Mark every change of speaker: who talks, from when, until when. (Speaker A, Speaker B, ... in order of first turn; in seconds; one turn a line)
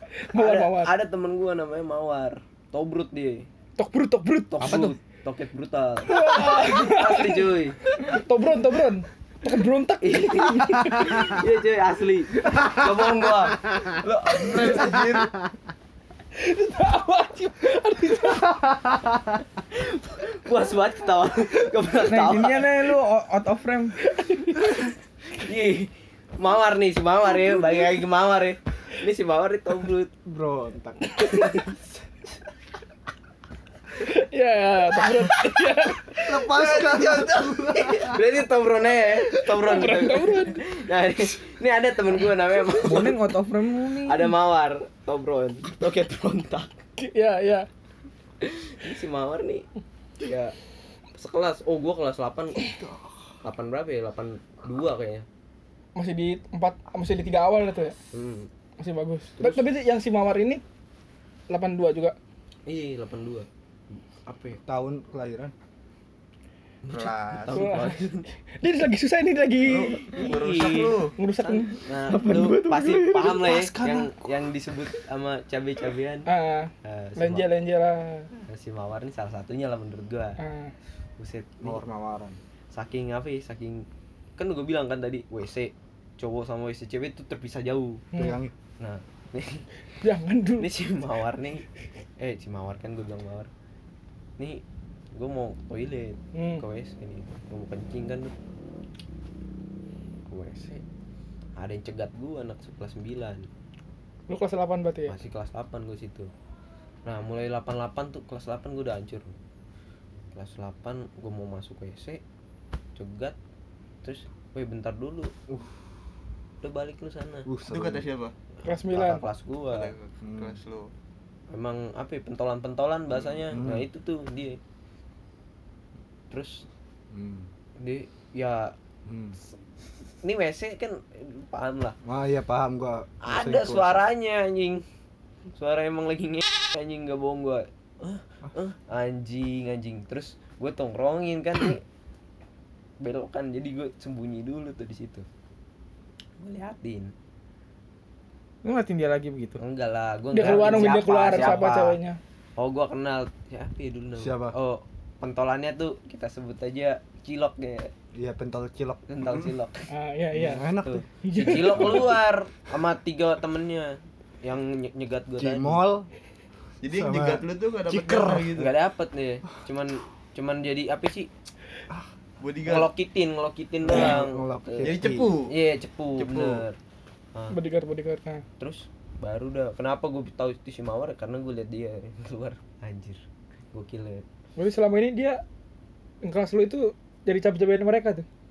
Speaker A: 0.3-0.9
Speaker B: 0.3-3.5
Speaker A: 3.8-4.9
Speaker B: 4.5-7.8
Speaker A: 6.1-11.4
Speaker B: 10.0-14.9
Speaker C: 14.3-15.3
Speaker A: 16.4-18.8
Speaker B: 19.7-22.7
Speaker D: 22.1-23.9
Speaker A: 24.1-24.8
Speaker B: 25.3-30.1
Speaker E: 30.2-31.9
Speaker A: 31.2-31.5
Speaker B: 31.2-31.6
Speaker A: 34.0-36.3
Speaker E: 36.2-38.1
Speaker C: 36.4-38.1
Speaker B: 36.6-37.1
Speaker B: 37.7-43.2
Speaker A: 39.5-40.6
Speaker D: 42.8-44.3
Speaker B: 44.0-46.8
Speaker A: 47.0-47.7
Speaker B: 48.4-49.6
Speaker B: 50.2-50.5
Speaker B: 51.1-52.7
Speaker B: 53.4-55.2
Speaker A: 55.9-58.0
Speaker B: 58.1-58.5
Speaker A: 58.8-60.6
Speaker A: 61.5-62.1
Speaker B: 62.7-64.6
Speaker E: 64.7-65.5
Speaker B: 66.8-68.3
Speaker C: 67.0-67.3
Speaker A: 67.5-68.0
Speaker A: 68.6-70.2
Speaker C: 69.7-71.2
Speaker B: 69.8-76.3
Speaker A: 71.2-71.8
Speaker D: 72.1-73.3
Speaker E: 73.1-74.3
Speaker A: 76.2-78.3
Speaker B: 76.8-77.5
Speaker B: 78.4-80.4
Speaker A: 80.4-80.7
Speaker B: 81.2-81.8
Speaker E: 81.6-82.4
Speaker B: 82.7-88.0
Speaker A: 88.1-88.4
Speaker E: 88.1-88.5
Speaker B: 88.8-89.7
Speaker A: 90.0-90.7
Speaker B: 90.6-91.6
Speaker B: 92.2-93.5
Speaker B: 94.4-94.6
Speaker B: 95.1-98.3
Speaker A: 96.3-96.6
Speaker B: 100.3-100.7
Speaker B: 101.6-103.5
Speaker A: 104.3-105.2
Speaker B: 105.1-106.3
Speaker B: 107.0-109.3
Speaker B: 110.3-112.2
Speaker B: 113.0-113.3
Speaker B: 114.0-115.3
Speaker B: 116.6-117.5
Speaker E: 117.5-118.0
Speaker C: 117.6-118.3
Speaker B: 118.6-119.9
Speaker A: 118.6-119.2
Speaker C: 119.7-120.9
Speaker E: 120.2-120.6
Speaker B: 121.5-124.6
Speaker E: 123.5-123.9
Speaker B: 126.3-126.7
Speaker E: 127.1-127.5
Speaker B: 127.8-128.7
Speaker E: 129.1-129.3
Speaker B: 130.2-132.0
Speaker E: 132.0-134.0
Speaker B: 133.2-134.8
Speaker B: 135.5-141.8
Speaker B: 143.0-145.2
Speaker B: 146.4-147.1
Speaker D: 148.6-149.6
Speaker B: 149.6-152.0
Speaker A: 150.3-152.2
Speaker B: 152.6-157.9
Speaker E: 154.2-154.5
Speaker E: 158.1-159.5
Speaker B: 159.1-159.9
Speaker A: 159.9-160.7
Speaker E: 160.3-161.0
Speaker B: 160.7-165.8
Speaker A: 161.2-162.1
Speaker E: 161.6-162.1
Speaker E: 165.4-166.1
Speaker C: 166.8-168.7
Speaker E: 166.9-168.5
Speaker B: 168.5-171.3
Speaker C: 172.4-172.9
Speaker B: 172.6-176.8
Speaker E: 173.8-175.3
Speaker C: 174.8-175.5
Speaker C: 176.2-176.6
Speaker A: 177.5-178.4
Speaker B: 178.6-183.2
Speaker B: 183.7-184.2
Speaker A: 184.6-185.4
Speaker A: 186.2-188.2